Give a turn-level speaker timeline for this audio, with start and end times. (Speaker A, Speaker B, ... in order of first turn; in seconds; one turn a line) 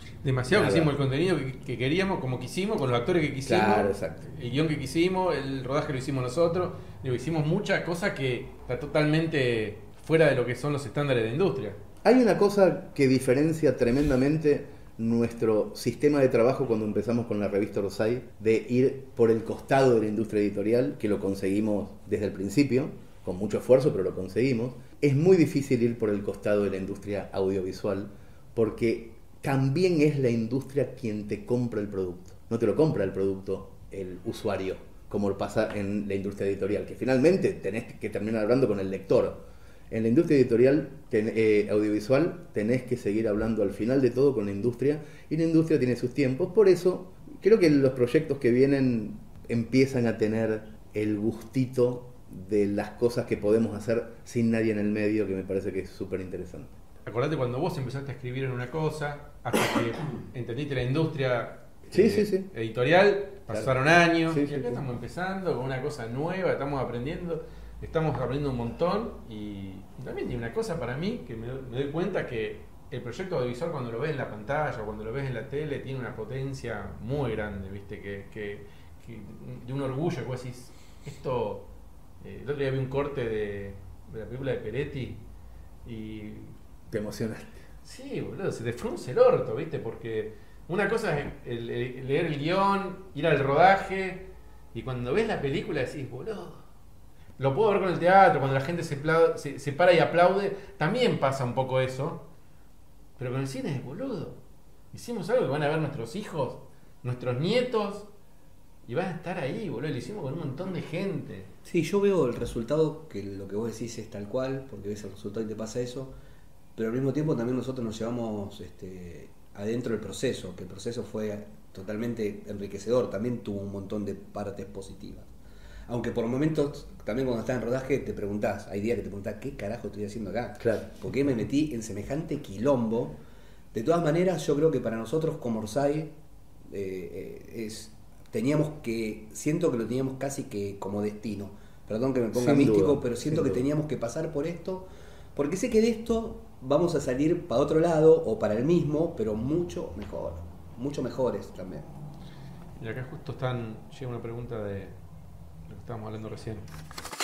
Speaker A: 0.2-11.8
Speaker B: 0.5-0.9
Speaker B: 3.4-4.3
Speaker B: 12.0-56.7
Speaker A: 57.0-81.7
Speaker B: 61.9-62.5
Speaker B: 63.5-63.7
Speaker B: 64.3-64.8
Speaker A: 82.2-85.2
Speaker A: 85.8-86.5
Speaker B: 86.9-87.6
Speaker A: 87.8-96.6
Speaker A: 97.4-102.2
Speaker A: 103.2-104.4
Speaker A: 104.9-108.1
Speaker A: 108.8-111.5
Speaker C: 111.6-116.1
Speaker C: 116.8-125.3
Speaker C: 125.9-133.2
Speaker B: 130.6-131.0
Speaker C: 133.7-136.1
Speaker C: 136.7-151.9
Speaker B: 142.3-143.7
Speaker A: 152.8-155.0
Speaker A: 155.7-156.7